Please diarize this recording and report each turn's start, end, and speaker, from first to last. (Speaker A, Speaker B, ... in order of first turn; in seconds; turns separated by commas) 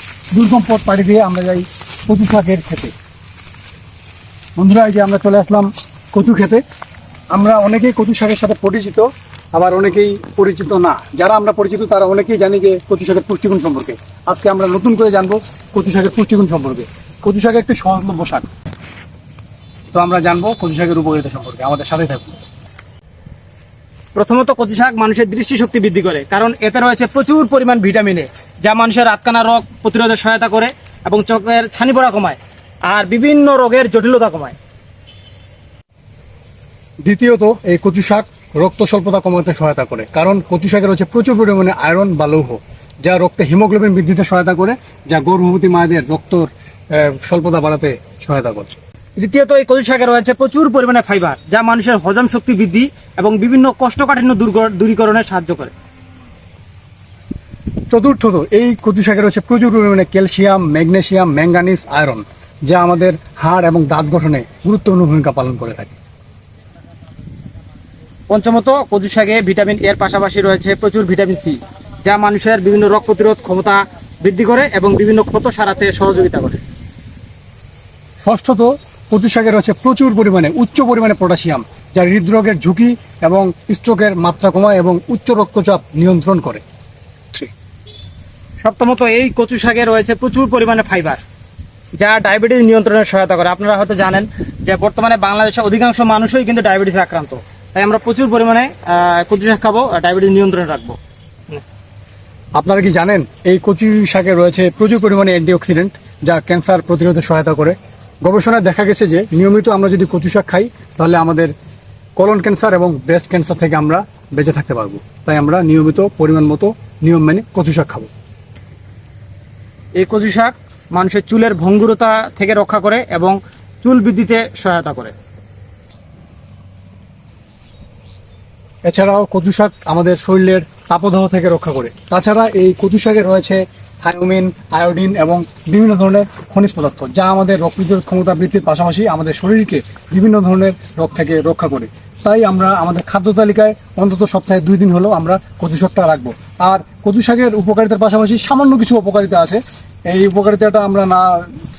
Speaker A: 0.3-2.9, Speaker A: 4.6-6.6, Speaker A: 7.3-18.5, Speaker A: 19.9-22.4, Speaker B: 24.1-34.5, Speaker A: 37.0-48.8, Speaker B: 49.2-55.7, Speaker A: 57.9-66.0, Speaker B: 68.3-76.6, Speaker A: 78.2-86.6, Speaker B: 88.6-91.2, Speaker B: 92.0-101.0, Speaker A: 102.5-111.5, Speaker A: 112.2-118.1, Speaker B: 120.0-125.1, Speaker A: 128.8-151.5